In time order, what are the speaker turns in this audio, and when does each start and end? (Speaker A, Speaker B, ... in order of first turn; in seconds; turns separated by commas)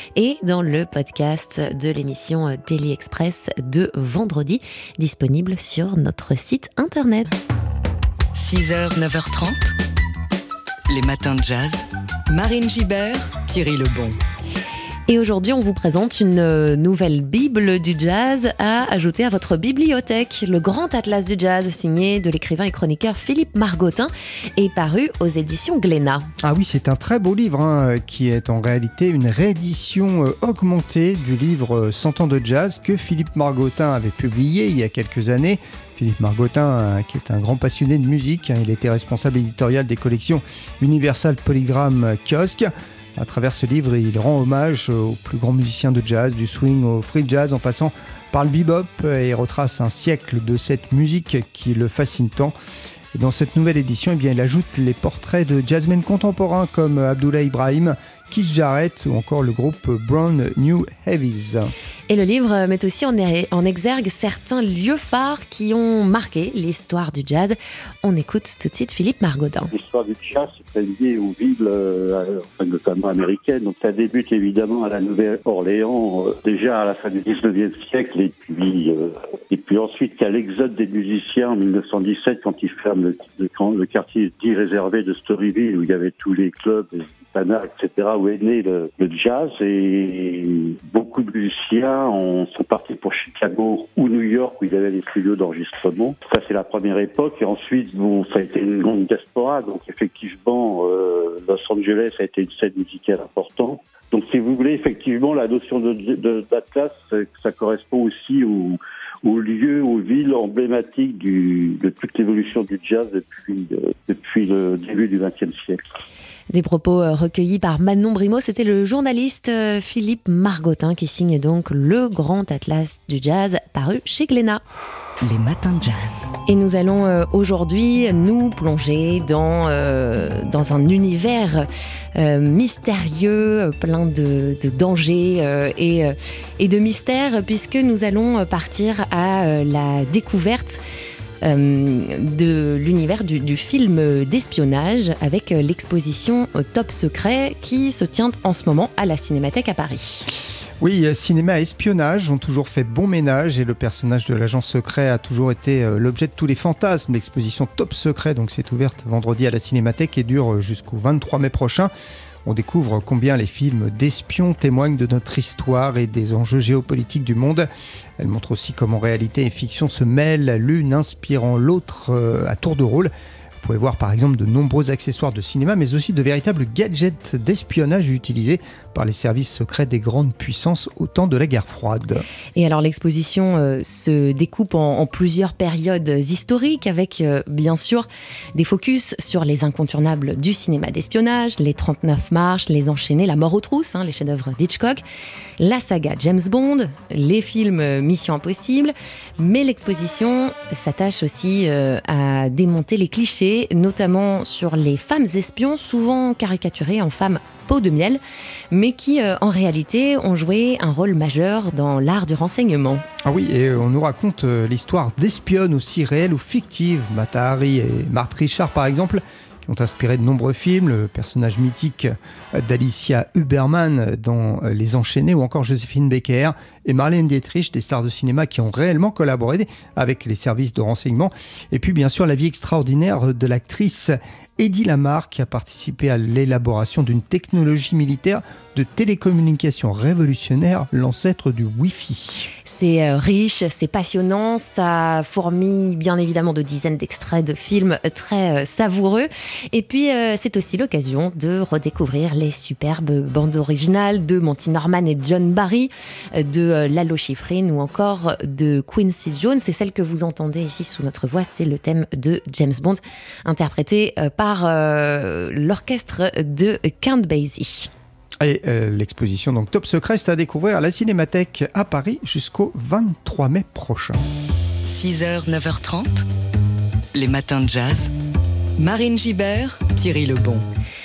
Speaker A: 0.1-7.3, Speaker B: 8.3-9.7, Speaker B: 10.9-14.2, Speaker A: 15.1-26.3, Speaker C: 26.4-52.5, Speaker C: 53.1-61.7, Speaker A: 62.1-69.7, Speaker D: 69.7-115.8, Speaker A: 116.5-124.6, Speaker B: 125.2-126.3, Speaker A: 126.5-140.8, Speaker A: 141.4-150.3, Speaker C: 150.8-161.9, Speaker C: 162.4-182.2, Speaker A: 182.5-195.0, Speaker A: 195.6-213.0, Speaker C: 213.2-242.5, Speaker A: 242.6-267.9, Speaker C: 268.4-274.2, Speaker B: 274.9-276.3, Speaker B: 277.1-278.1, Speaker B: 278.8-280.6